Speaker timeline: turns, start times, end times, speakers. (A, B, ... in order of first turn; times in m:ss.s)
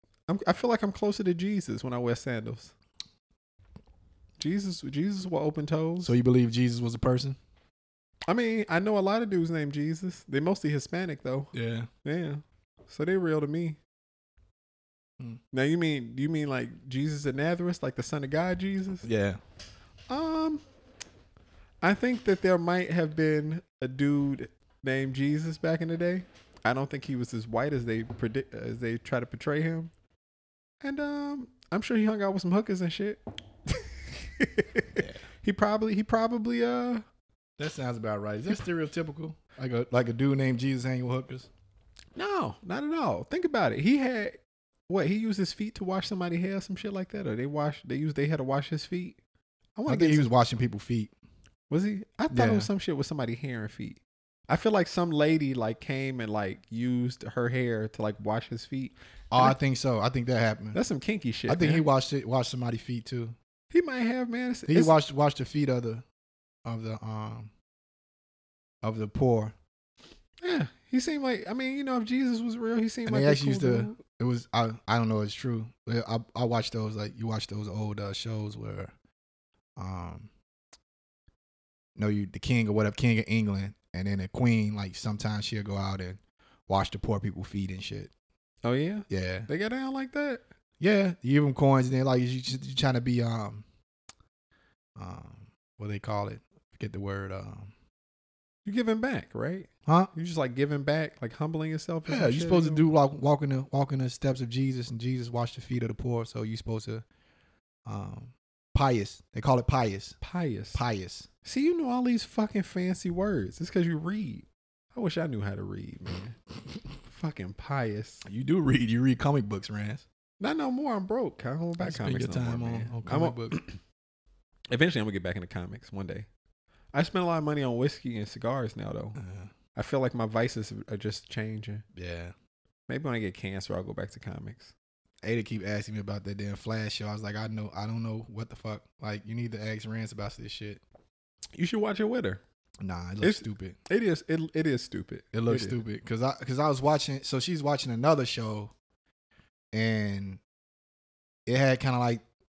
0:00.3-0:02.7 A
0:04.4-0:06.1 A
0:06.0-0:07.4 B
0:08.3-0:11.5 A
0:11.5-0:11.9 B
0:12.0-0:13.8 A
0:15.5-0:19.1 A
0:19.0-0:19.4 B
0:20.1-0:20.6 A
0:21.8-0:29.9 A
0:30.8-0:37.0 A
0:37.6-0:41.5 B
0:42.2-0:44.4 A
0:44.9-0:49.2 A
0:49.8-0:50.3 A
0:49.9-0:51.1 B
0:51.7-0:59.5 A
0:52.3-0:52.7 B
0:59.3-1:00.8 B
1:00.7-1:01.8 A
1:01.5-1:03.3 B
1:03.7-1:05.0 A
1:04.7-1:06.0 B
1:06.6-1:07.5 B
1:08.8-1:09.5 B
1:10.4-1:14.0 A
1:13.0-1:18.9 B
1:19.8-1:20.3 B
1:22.0-1:28.1 B
1:28.6-1:30.4 A
1:29.1-1:29.5 B
1:30.8-1:33.6 B
1:35.0-1:37.7 B
1:38.6-1:42.8 A
1:39.8-1:40.1 B
1:42.1-1:47.0 B
1:47.8-1:50.2 B
1:50.2-1:50.8 A
1:50.7-1:51.3 B
1:51.4-1:56.4 A
1:57.0-1:58.2 A
1:58.2-2:00.0 B
2:00.4-2:03.8 A
2:01.8-2:03.6 B
2:04.7-2:06.3 A
2:06.9-2:09.2 A
2:09.2-2:09.5 B
2:09.7-2:11.8 A
2:11.9-2:12.3 B
2:12.9-2:14.7 A
2:15.2-2:20.8 B
2:21.6-2:22.4 A
2:22.8-2:23.8 B
2:23.2-2:25.8 A
2:25.3-2:28.7 B
2:29.7-2:30.4 B
2:31.4-2:32.2 B